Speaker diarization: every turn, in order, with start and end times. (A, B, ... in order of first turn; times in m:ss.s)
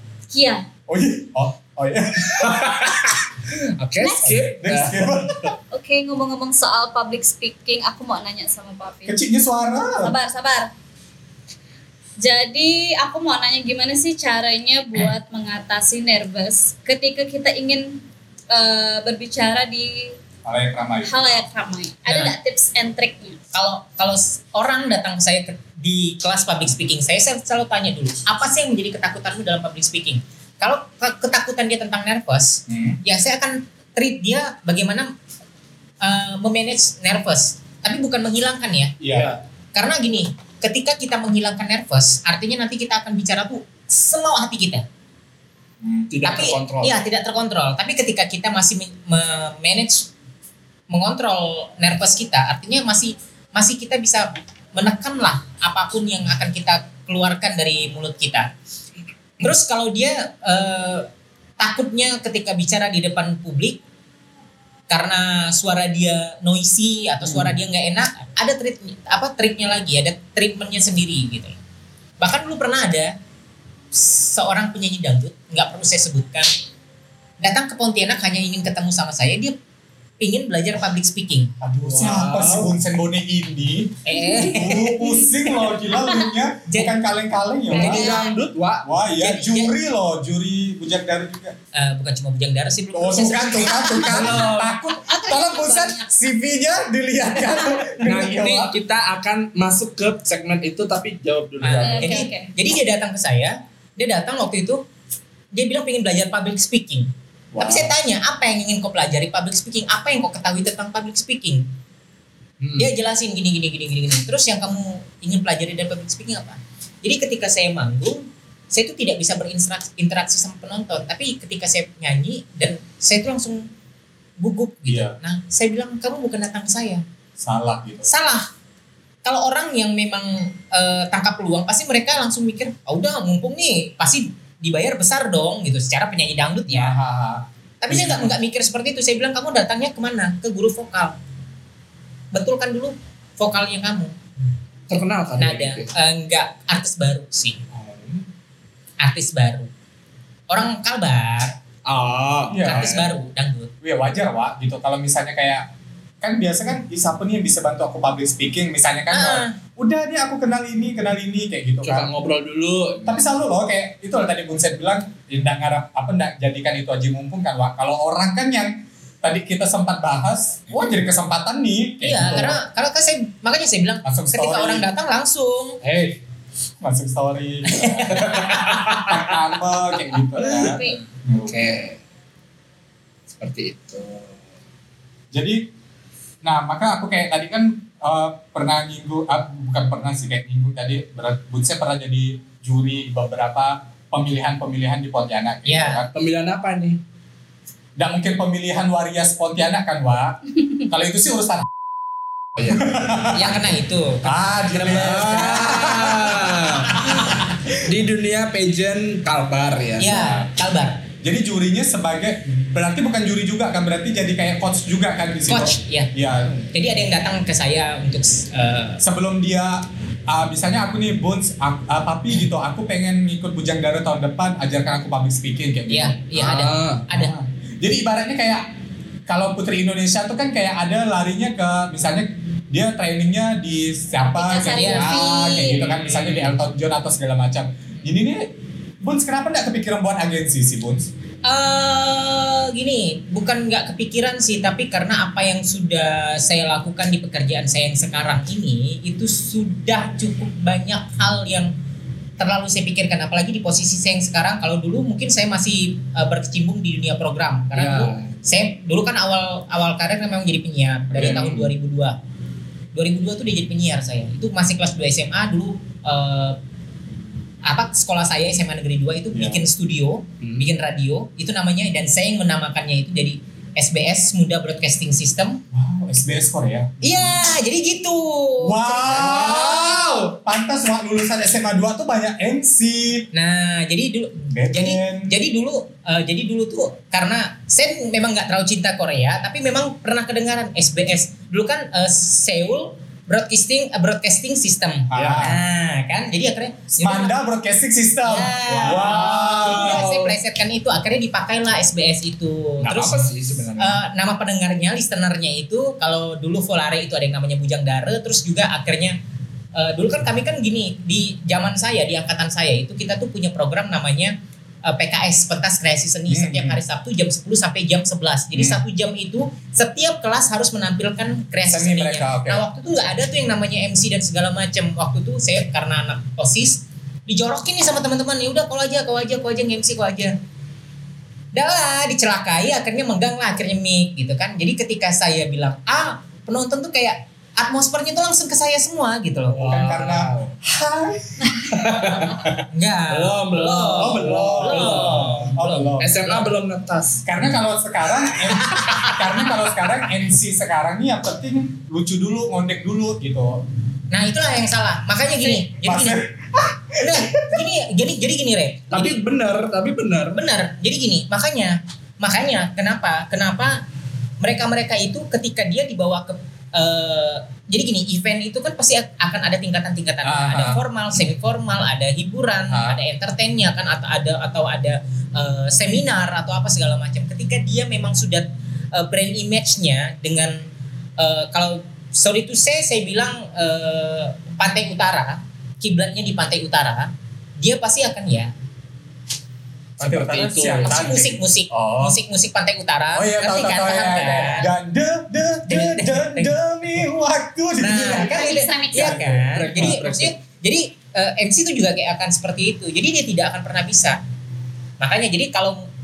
0:00.3-0:00.6 A
0:00.9-0:02.9 B
0:02.3-0:05.1 C
0:04.0-0:04.4 A
0:04.2-0:05.5 B
0:05.7-0:09.2 A
0:09.0-0:10.1 B
0:09.9-0:10.7 A
0:12.2-0:20.2 A
0:20.4-0:21.1 B
0:21.0-0:23.4 A
0:23.5-0:35.1 D
0:32.7-0:33.0 B
0:36.0-0:38.9 D
0:39.0-0:39.3 B
0:39.1-0:39.4 C
0:39.7-0:44.8 D
0:45.8-0:46.1 B
0:46.1-0:47.0 C
0:46.2-0:50.1 D
0:50.9-0:58.5 D
0:59.4-1:03.8 D
1:04.9-1:11.6 D
1:07.2-1:07.5 B
1:12.2-1:13.1 D
1:13.9-1:16.5 D
1:17.4-1:19.6 D
1:20.2-1:21.5 D
1:21.6-1:28.1 B
1:21.8-1:22.8 C
1:24.0-1:25.5 D
1:26.6-1:26.9 D
1:27.7-1:28.9 C
1:27.7-1:28.3 D
1:27.8-1:28.3 A
1:28.8-1:31.6 B
1:29.2-1:29.7 D
1:31.7-1:34.4 D
1:32.9-1:38.7 B
1:34.0-1:34.7 C
1:34.9-1:36.1 A
1:38.0-1:42.2 C
1:41.6-1:44.8 D
1:41.8-1:42.5 A
1:45.5-1:51.7 D
1:47.5-1:48.0 B
1:52.6-1:52.9 C
1:52.8-2:03.7 D
2:04.4-2:07.0 D
2:04.9-2:05.2 B
2:07.4-2:08.1 B
2:08.0-2:08.5 D
2:09.2-2:16.9 D
2:16.7-2:18.4 B
2:17.8-2:21.2 D
2:22.3-2:24.2 D
2:24.9-2:25.9 C
2:25.4-2:27.6 D
2:27.7-2:28.2 B
2:29.0-2:29.7 D
2:30.5-2:31.6 D
2:31.8-2:33.1 C
2:32.5-2:33.0 B
2:32.6-2:33.7 D
2:33.8-2:35.7 B
2:36.2-2:42.1 B
2:39.1-2:39.5 D
2:41.8-2:43.2 C
2:43.1-2:52.6 B
2:52.0-2:55.8 D
2:54.0-2:54.9 B
2:55.8-2:56.1 B
2:56.8-3:01.7 B
2:57.6-2:58.8 D
2:58.1-2:59.4 C
3:00.4-3:00.9 C
3:00.4-3:01.0 A
3:01.4-3:02.0 C
3:03.4-3:04.4 C
3:05.3-3:05.6 B
3:06.4-3:16.1 B
3:15.6-3:16.0 D
3:16.1-3:17.0 C
3:18.0-3:21.7 B
3:22.6-3:22.9 C
3:22.7-3:23.6 B
3:23.3-3:25.7 D
3:24.2-3:27.8 B
3:24.8-3:27.1 C
3:27.8-3:30.3 C
3:30.0-3:31.0 D
3:31.2-3:36.6 B
3:35.5-3:36.1 D
3:36.7-3:39.0 D
3:39.0-3:46.6 B
3:45.9-3:47.3 D
3:46.3-3:47.0 C
3:47.1-3:48.6 B
3:49.3-4:01.1 B
3:54.3-3:55.8 A
3:54.7-3:55.2 D
3:55.6-3:56.6 C
4:01.4-4:11.7 D
4:12.4-4:22.2 D
4:17.7-4:18.3 C
4:21.1-4:21.7 B
4:21.2-4:21.6 C
4:22.9-4:26.6 D
4:27.6-4:35.6 D
4:29.3-4:29.6 B
4:30.4-4:30.7 C
4:35.7-4:37.3 B
4:37.0-4:40.1 D
4:38.6-4:43.3 B
4:43.3-4:57.3 D
4:44.5-4:45.3 B
4:55.1-4:55.6 B
4:55.1-4:55.5 C
4:57.0-5:00.0 B
4:58.2-5:03.2 D
4:58.8-5:00.4 C
5:02.8-5:04.0 C
5:03.8-5:09.2 D
5:09.7-5:30.4 D
5:16.3-5:16.8 B
5:18.5-5:18.8 B
5:21.7-5:22.6 B
5:31.5-5:39.6 D
5:39.5-5:40.5 C
5:39.6-5:41.5 B
5:41.6-5:47.3 C
5:42.7-5:45.9 D
5:44.0-5:46.5 B
5:47.2-5:53.6 B
5:48.6-5:49.2 D
5:54.1-5:56.2 D
5:55.5-5:57.6 B
5:57.0-5:59.2 D
5:58.9-6:00.4 C
6:00.3-6:03.8 D
6:04.4-6:28.5 D
6:10.2-6:10.8 B
6:12.7-6:13.0 B
6:30.0-6:31.1 C
6:30.0-6:32.2 B
6:30.8-6:34.7 D
6:33.1-6:38.4 B
6:35.7-6:36.5 D
6:37.8-6:44.2 D
6:38.0-6:39.2 A
6:39.0-6:40.3 C
6:45.0-6:45.8 D